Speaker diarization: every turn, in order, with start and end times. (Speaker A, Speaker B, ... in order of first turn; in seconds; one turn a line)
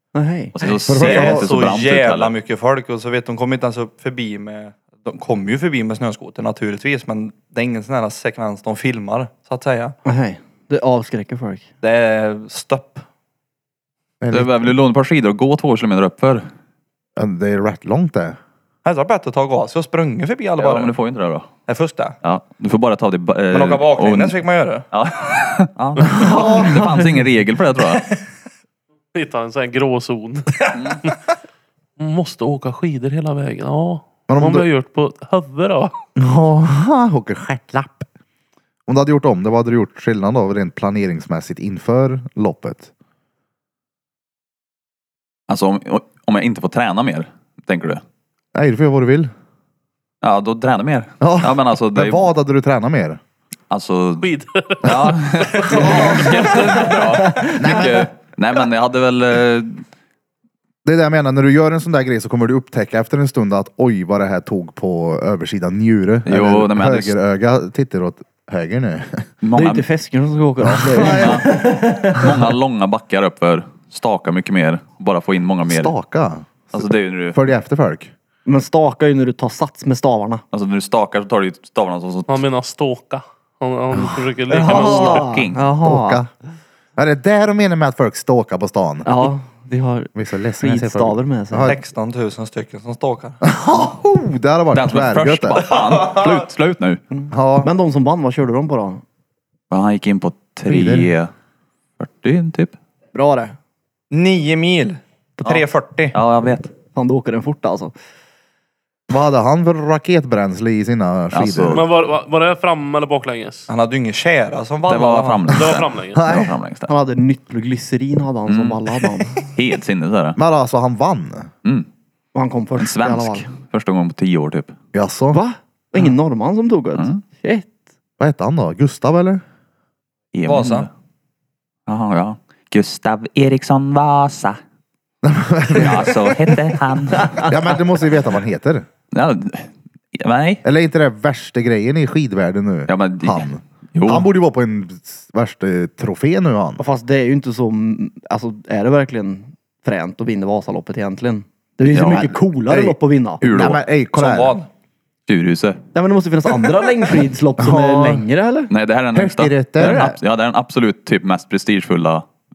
Speaker A: 0.1-0.6
Speaker B: 0.5-2.3
Speaker C: 0.6-9.9
Speaker D: 0.9-1.5
Speaker A: 10.1-11.7
Speaker C: 11.8-13.0
Speaker D: 14.2-14.7
Speaker B: 14.3-16.4
Speaker D: 17.2-18.4
Speaker C: 18.9-21.0
Speaker B: 20.6-21.5
Speaker C: 21.7-22.1
Speaker B: 22.2-28.1
Speaker C: 23.5-24.9
Speaker D: 26.1-26.8
Speaker A: 26.3-26.9
Speaker E: 29.1-31.2
Speaker B: 30.7-31.0
Speaker E: 32.0-35.9
Speaker D: 34.3-34.7
Speaker D: 36.2-38.1
Speaker D: 38.9-42.9
Speaker B: 45.5-48.0
Speaker D: 48.5-49.3
Speaker B: 50.2-52.3
Speaker D: 51.2-53.2
Speaker B: 53.7-54.3
Speaker E: 54.2-56.9
Speaker B: 54.9-59.8
Speaker D: 55.8-56.1
Speaker D: 57.5-58.1
Speaker D: 60.8-69.3
Speaker B: 66.2-67.2
Speaker B: 69.4-69.9
Speaker A: 69.5-72.3
Speaker D: 70.7-71.5
Speaker B: 71.0-71.5
Speaker B: 72.1-76.0
Speaker D: 75.7-78.1
Speaker B: 76.7-77.4
Speaker A: 78.5-80.4
Speaker B: 80.5-82.4
Speaker E: 82.3-85.3
Speaker A: 84.5-86.2
Speaker B: 84.6-85.6
Speaker D: 85.8-86.3
Speaker D: 87.0-89.1
Speaker A: 89.0-91.7
Speaker D: 90.2-91.8
Speaker C: 91.6-93.4
Speaker D: 93.4-95.7
Speaker B: 94.7-97.0
Speaker C: 95.8-96.3
Speaker A: 97.1-99.0
Speaker D: 97.3-97.7
Speaker B: 99.7-101.3
Speaker D: 100.7-101.2
Speaker B: 102.0-102.8
Speaker A: 103.1-103.5
Speaker C: 104.1-106.2
Speaker B: 105.4-106.7
Speaker A: 107.0-107.9
Speaker D: 109.1-111.8
Speaker B: 111.3-111.9
Speaker E: 111.7-113.7
Speaker C: 113.7-115.6
Speaker B: 114.9-116.9
Speaker E: 115.5-116.2
Speaker D: 116.1-116.5
Speaker A: 116.9-119.5
Speaker B: 118.5-118.9
Speaker B: 119.5-120.4
Speaker D: 120.4-121.5
Speaker A: 122.3-123.5
Speaker B: 122.8-124.7
Speaker D: 124.9-125.4
Speaker A: 125.3-127.7
Speaker B: 127.0-127.2
Speaker D: 128.2-129.4
Speaker B: 130.3-130.9
Speaker C: 130.5-130.9
Speaker B: 131.9-134.6
Speaker D: 135.2-136.6
Speaker B: 135.8-137.4
Speaker D: 137.4-138.9
Speaker B: 139.1-140.6
Speaker D: 140.6-146.8
Speaker B: 142.9-144.3
Speaker A: 146.8-153.4
Speaker B: 151.9-152.3
Speaker D: 152.1-154.6
Speaker B: 153.4-153.8
Speaker C: 154.1-154.7
Speaker B: 155.3-155.8
Speaker A: 155.9-158.7
Speaker D: 157.6-158.3
Speaker B: 158.7-162.2
Speaker D: 159.1-160.1
Speaker A: 159.8-160.2